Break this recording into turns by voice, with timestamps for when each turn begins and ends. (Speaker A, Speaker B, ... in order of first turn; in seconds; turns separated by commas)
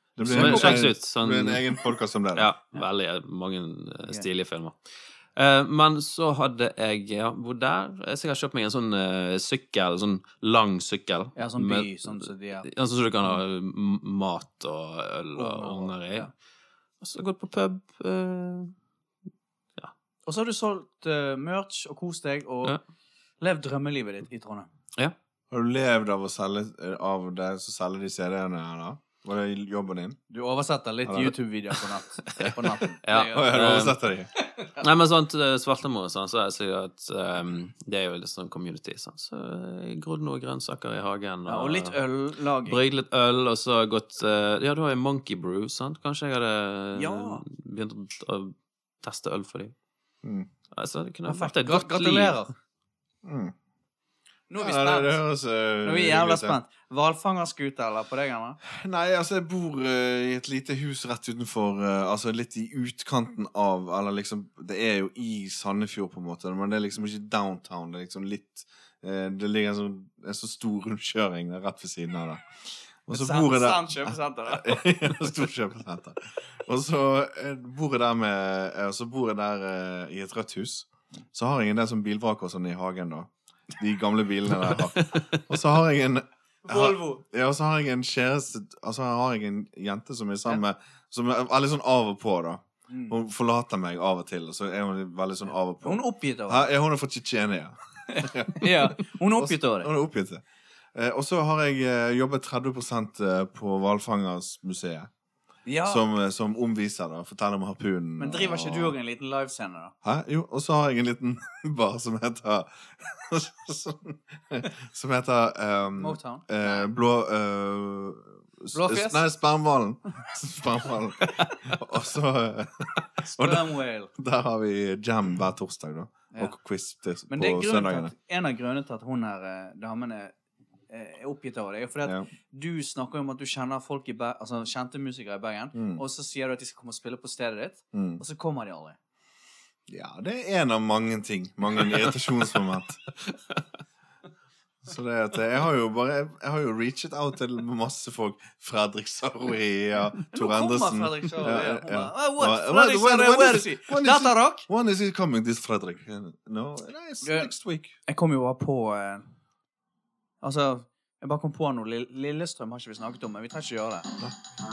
Speaker A: 0.2-2.5, Speaker B: 0.2-1.8, Speaker C: 0.2-0.9, Speaker B: 2.3-16.3, Speaker C: 11.4-12.7, Speaker C: 15.3-16.3, Speaker B: 17.0-18.8, Speaker C: 20.3-22.8, Speaker C: 23.4-24.7, Speaker A: 25.5-30.2, Speaker C: 30.3-33.5, Speaker A: 31.1-31.4, Speaker B: 32.4-34.0, Speaker A: 33.1-34.3, Speaker C: 34.4-34.8, Speaker B: 34.8-42.0, Speaker C: 41.5-42.8, Speaker B: 42.6-49.7, Speaker C: 47.0-47.4, Speaker A: 50.2-50.5, Speaker B: 50.7-52.4, Speaker C: 51.3-52.5, Speaker A: 53.2-53.5, Speaker C: 54.5-55.2, Speaker A: 54.6-56.6, Speaker C: 55.8-58.6, Speaker A: 58.6-100.4, Speaker C: 73.1-74.9, Speaker C: 86.7-87.2, Speaker C: 92.9-93.2, Speaker C: 95.8-96.7, Speaker C: 98.1-99.9, Speaker A: 100.9-105.1, Speaker C: 105.7-106.0, Speaker A: 105.8-109.0, Speaker C: 108.2-109.9, Speaker A: 110.0-128.1, Speaker C: 116.0-116.9, Speaker C: 118.7-119.2, Speaker C: 121.2-121.8, Speaker C: 123.2-124.1, Speaker C: 127.3-130.3, Speaker C: 130.9-139.0, Speaker A: 135.7-136.0, Speaker A: 137.9-138.2, Speaker A: 139.9-143.0, Speaker B: 143.3-143.6, Speaker A: 144.8-157.9, Speaker C: 150.3-154.7, Speaker C: 157.2-157.5, Speaker C: 158.1-159.3, Speaker C: 160.4-164.1